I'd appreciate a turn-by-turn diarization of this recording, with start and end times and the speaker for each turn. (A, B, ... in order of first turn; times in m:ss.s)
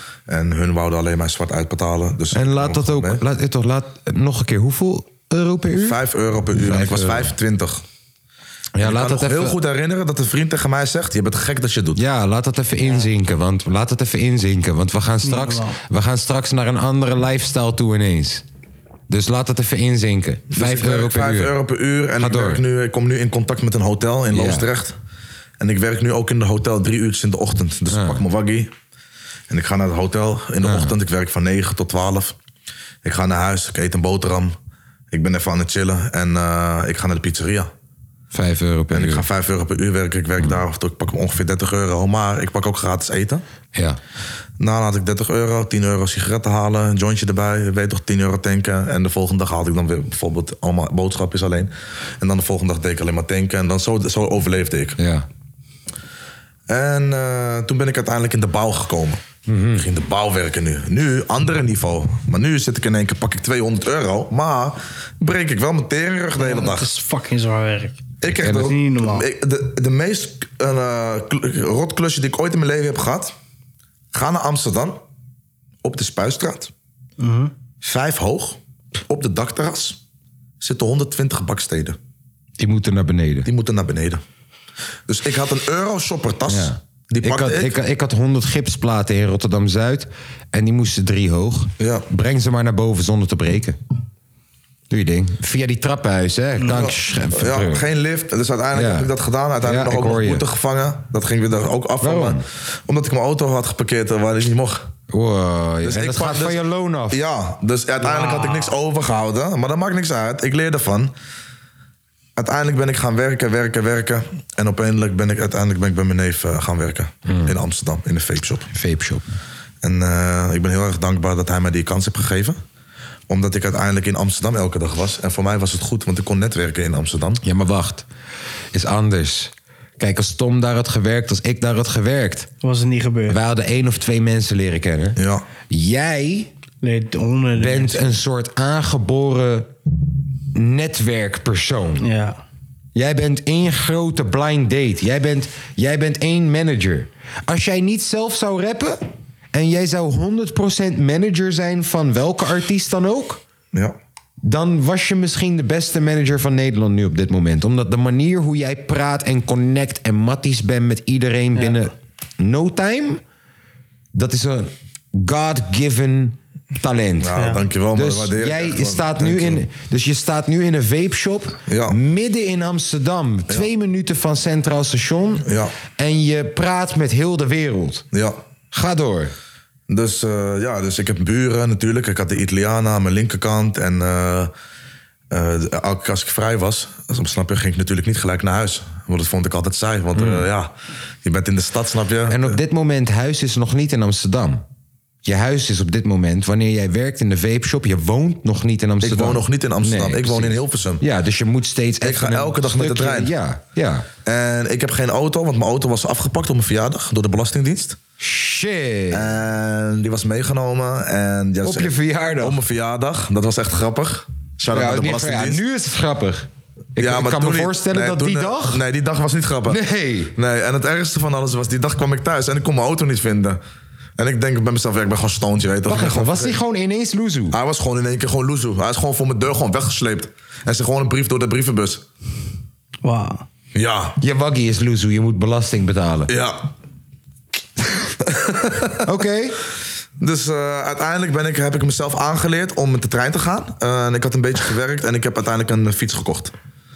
0:00.3-0:03.2 A
0:02.3-0:06.0 B
0:05.8-0:07.8 A
0:06.5-0:07.3 B
0:08.7-0:09.6 B
0:08.8-0:12.0 A
0:12.0-0:18.4 B
0:15.2-0:15.8 C
0:19.1-0:21.5 B
0:20.5-0:25.0 A
0:22.2-0:22.6 B
0:24.3-0:24.7 B
0:25.6-0:28.7 A
0:27.9-0:28.2 B
0:29.5-0:32.3 A
0:30.6-0:30.9 B
0:33.0-0:34.5 A
0:35.1-0:37.7 A
0:38.3-0:39.2 B
0:38.9-0:43.4 A
0:44.6-0:55.0 A
0:55.0-0:55.2 B
0:56.7-0:59.2 A
0:59.5-0:59.8 B
0:59.7-1:06.9 A
1:06.4-1:08.0 C
1:08.2-1:13.3 A
1:08.2-1:08.7 B
1:08.6-1:09.2 C
1:14.1-1:15.0 A
1:15.8-1:16.7 A
1:17.2-1:17.5 C
1:17.8-1:20.0 A
1:20.6-1:22.0 A
1:22.6-1:23.5 B
1:23.4-1:24.2 A
1:25.1-1:27.7 A
1:26.5-1:33.8 B
1:31.8-1:32.0 A
1:34.9-1:37.8 B
1:36.6-1:36.8 C
1:36.7-1:44.9 A
1:38.7-1:40.4 B
1:42.0-1:42.4 B
1:45.1-1:47.2 B
1:45.8-1:51.1 A
1:48.0-1:48.7 C
1:52.4-1:58.7 A
1:57.3-1:57.6 B
1:58.7-1:59.2 B
1:59.8-2:02.6 A
2:03.3-2:07.4 A
2:07.4-2:08.0 B
2:08.7-2:12.5 B
2:12.6-2:13.4 C
2:13.3-2:16.5 B
2:15.2-2:15.4 A
2:16.8-2:18.0 C
2:17.6-2:19.7 B
2:20.5-2:22.1 B
2:22.0-2:22.4 C
2:22.9-2:29.0 B
2:29.5-2:33.4 B
2:34.4-2:43.2 B
2:44.1-2:58.0 B
2:47.2-2:49.6 A
2:47.4-2:47.6 C
2:51.7-2:52.0 A
2:55.4-2:55.7 A
2:58.1-2:58.4 A
2:58.7-2:59.3 B
2:59.9-3:04.5 A
3:05.3-3:10.7 A
3:10.2-3:10.4 B
3:11.2-3:12.6 A
3:12.3-3:14.6 B
3:15.2-3:24.1 B
3:19.0-3:21.0 A
3:22.0-3:23.3 A
3:24.2-3:28.0 A
3:28.2-3:29.4 B
3:29.1-3:35.6 A
3:31.6-3:32.6 B
3:34.7-3:38.8 B
3:37.0-3:39.8 A
3:39.6-3:40.3 B
3:40.3-3:43.6 A
3:44.2-3:46.6 A
3:45.8-3:47.6 B
3:47.5-3:52.0 A
3:53.0-3:53.4 C
3:53.7-3:54.2 A
3:54.2-3:56.3 B
3:56.3-3:56.7 A
3:58.2-3:59.0 A
3:59.0-3:59.6 B
4:00.2-4:06.5 A